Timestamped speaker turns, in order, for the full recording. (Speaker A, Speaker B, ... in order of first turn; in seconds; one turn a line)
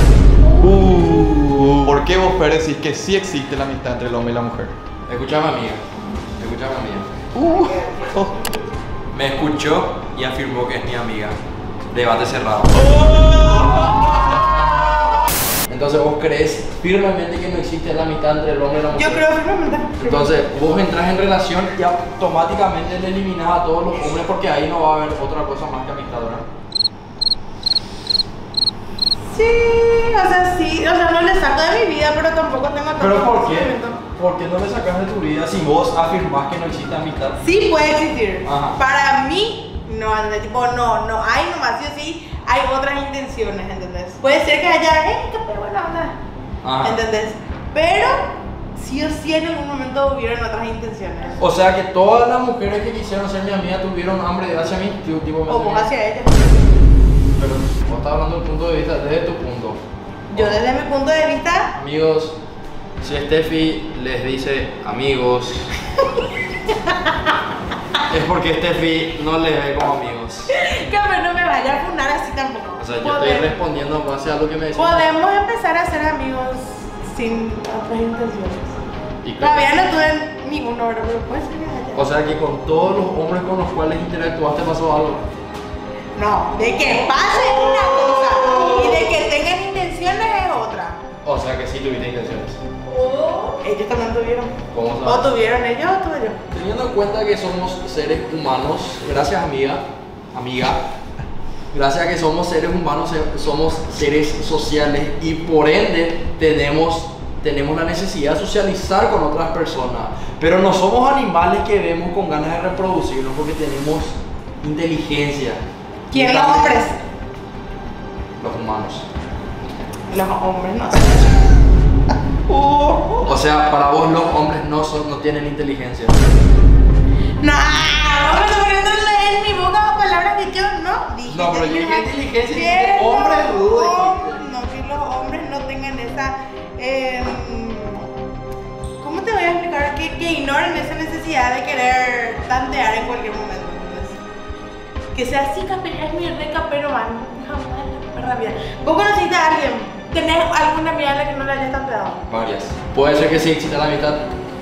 Speaker A: 0.5-1.0
Speaker B: 0.6-4.7
Speaker C: 5.1-5.8
Speaker C: 6.4-7.1
Speaker B: 7.3-8.3
Speaker A: 7.6-8.2
Speaker C: 9.1-11.4
Speaker C: 11.9-12.8
Speaker B: 12.8-13.9
Speaker C: 15.7-19.2
Speaker A: 18.9-20.4
Speaker C: 20.0-26.4
Speaker A: 29.3-34.0
Speaker C: 33.0-37.4
Speaker A: 37.4-46.2
Speaker C: 38.4-38.8
Speaker C: 46.6-47.0
Speaker A: 46.8-51.4
Speaker C: 51.4-55.9
Speaker A: 55.5-56.5
Speaker C: 57.4-59.8
Speaker A: 60.3-61.7
Speaker C: 60.3-60.6
Speaker C: 61.8-62.4
Speaker C: 63.0-65.7
Speaker C: 68.1-70.5
Speaker A: 70.5-73.5
Speaker C: 72.8-75.0
Speaker A: 74.8-78.8
Speaker C: 79.2-79.7
Speaker A: 79.4-82.0
Speaker C: 82.0-85.2
Speaker A: 86.2-91.0
Speaker C: 91.2-92.6
Speaker A: 92.9-94.5
Speaker C: 94.7-95.2
Speaker A: 95.0-96.4
Speaker C: 96.5-100.8
Speaker C: 101.7-115.6
Speaker A: 116.1-117.0
Speaker C: 116.1-116.8
Speaker C: 118.4-119.1
Speaker A: 120.1-121.4
Speaker A: 122.5-123.2
Speaker C: 123.2-126.2
Speaker A: 127.4-138.1
Speaker C: 131.3-134.4
Speaker A: 139.0-144.2
Speaker A: 145.1-152.2
Speaker C: 152.3-154.3